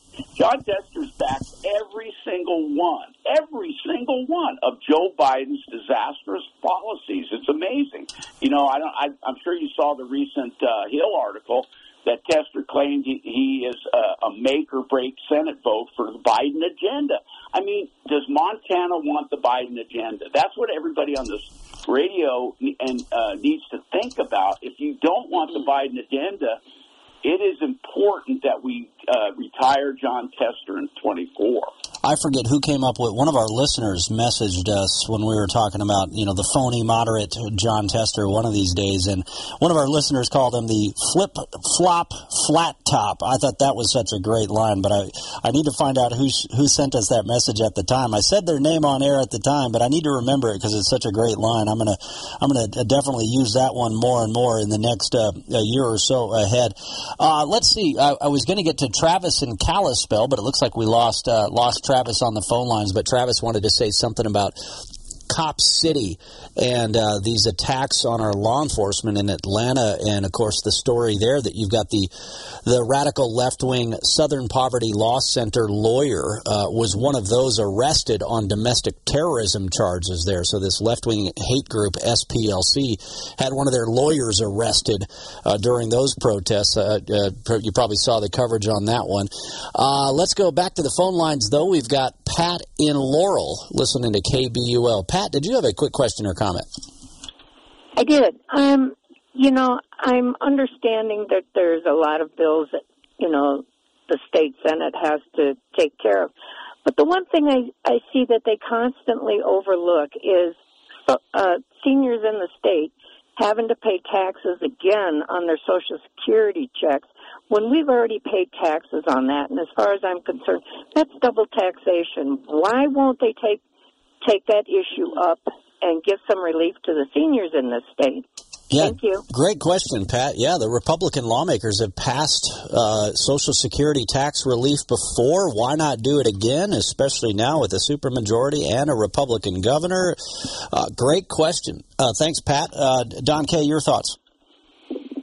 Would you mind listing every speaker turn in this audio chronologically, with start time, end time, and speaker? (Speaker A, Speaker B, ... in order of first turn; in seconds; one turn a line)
Speaker A: 0.4-26.6
Speaker A: 27.2-31.7
Speaker B: 32.0-72.1
Speaker B: 72.6-96.7
Speaker C: 98.0-106.3
Speaker C: 106.8-123.6
Speaker C: 124.2-128.2
Speaker B: 128.7-140.2
Speaker C: 128.8-129.2
Speaker B: 140.7-144.2